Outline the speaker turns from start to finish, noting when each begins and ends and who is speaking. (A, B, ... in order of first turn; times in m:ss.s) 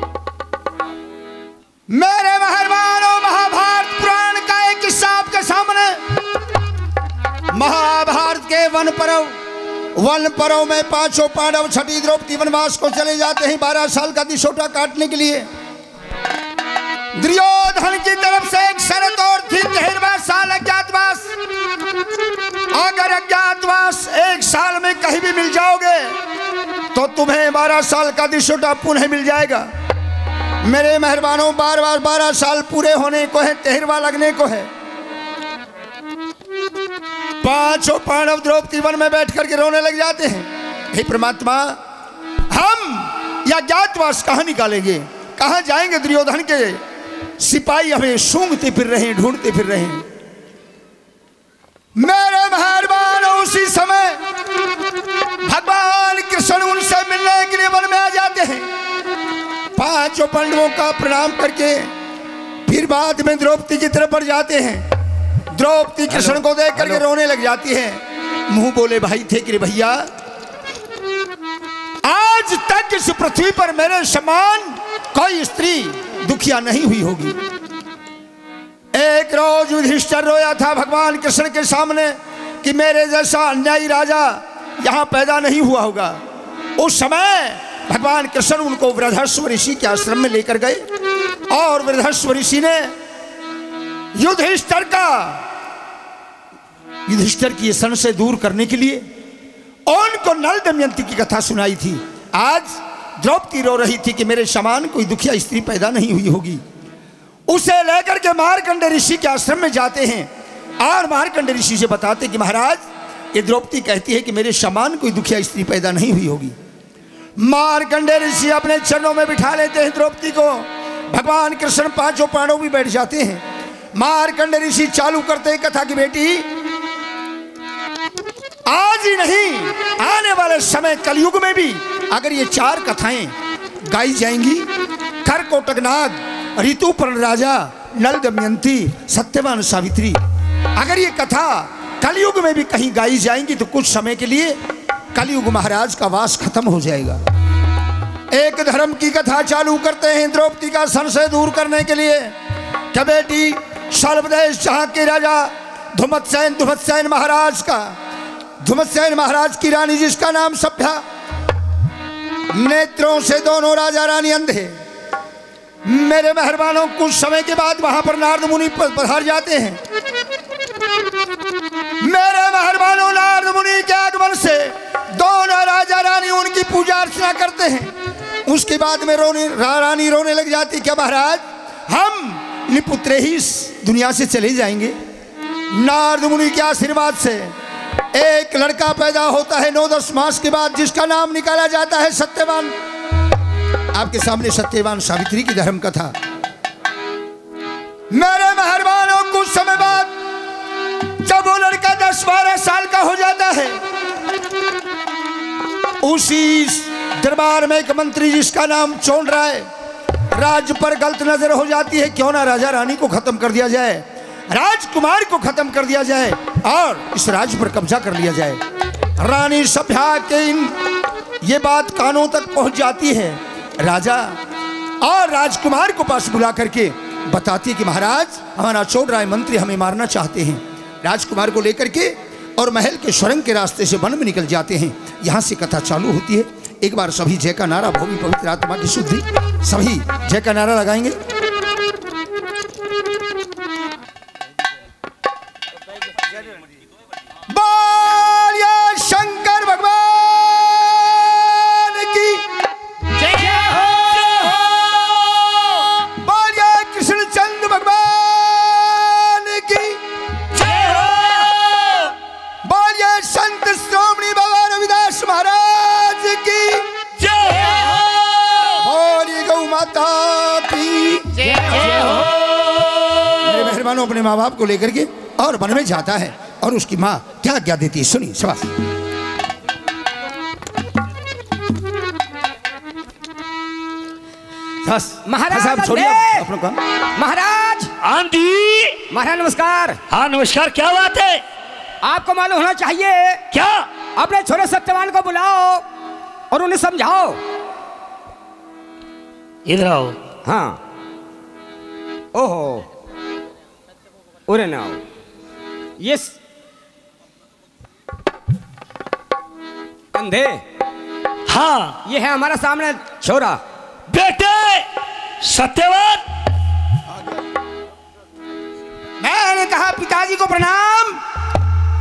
0:01.9-0:06.0 A
0:07.5-0:09.4 A
0:09.9-0:15.5 A
0:17.1-0:21.4 A
0:22.7-0:26.2 A
0:26.9-0:29.7 A
0:30.6-0:34.7 A
0:37.4-0:41.8 A
0:42.5-0:46.8 A
0:47.4-0:50.0 A
0:52.0-0:54.2 A
0:55.4-0:58.7 A
0:59.8-1:01.9 A
1:02.6-1:04.9 A
1:05.5-1:10.0 A
1:12.0-1:17.4 A
1:18.9-1:26.2 A
1:26.8-1:30.8 A
1:31.5-1:32.9 A
1:34.1-1:35.4 A
1:37.1-1:39.0 A
1:39.9-1:46.6 A
1:47.5-1:56.5 A
1:57.4-2:06.5 A
2:08.6-2:13.3 A
2:13.8-2:14.7 A
2:15.2-2:20.2 A
2:20.7-2:24.6 A
2:25.1-2:27.2 A
2:28.3-2:32.3 A
2:32.9-2:38.0 A
2:38.6-2:41.0 A
2:42.5-2:44.8 A
2:45.8-2:49.8 A
2:52.0-2:57.9 A
2:58.4-3:04.9 A
3:05.7-3:07.5 A
3:08.1-3:12.8 A
3:13.9-3:16.1 A
3:18.1-3:20.2 A
3:21.2-3:23.8 A
3:26.0-3:29.7 A
3:30.3-3:38.6 A
3:39.2-3:40.8 A
3:41.4-3:44.4 A
3:45.0-4:01.2 A
4:07.5-4:12.4 A
4:13.2-4:14.2 B
4:14.5-4:15.3 A
4:16.0-4:20.0 A
4:20.5-4:21.9 C
4:22.6-4:26.9 A
4:27.2-4:28.8 C
4:28.8-4:32.2 A
4:31.6-4:32.2 B
4:33.4-4:38.7 A
4:44.8-4:46.8 A
4:45.2-4:46.5 B
4:47.2-4:47.9 B
4:48.0-4:49.0 C
4:49.1-4:50.0 B
4:50.1-4:51.4 C
4:52.0-4:53.4 B
4:53.5-4:53.9 C
4:54.1-4:55.8 B
4:56.5-4:57.4 B
4:59.6-5:00.2 C
5:00.4-5:00.8 B
5:02.3-5:02.8 B
5:04.5-5:05.0 B
5:06.0-5:06.4 B
5:10.1-5:10.6 B
5:11.5-5:12.0 C
5:12.0-5:13.6 B
5:14.1-5:14.9 C
5:15.4-5:16.2 C
5:19.2-5:21.2 A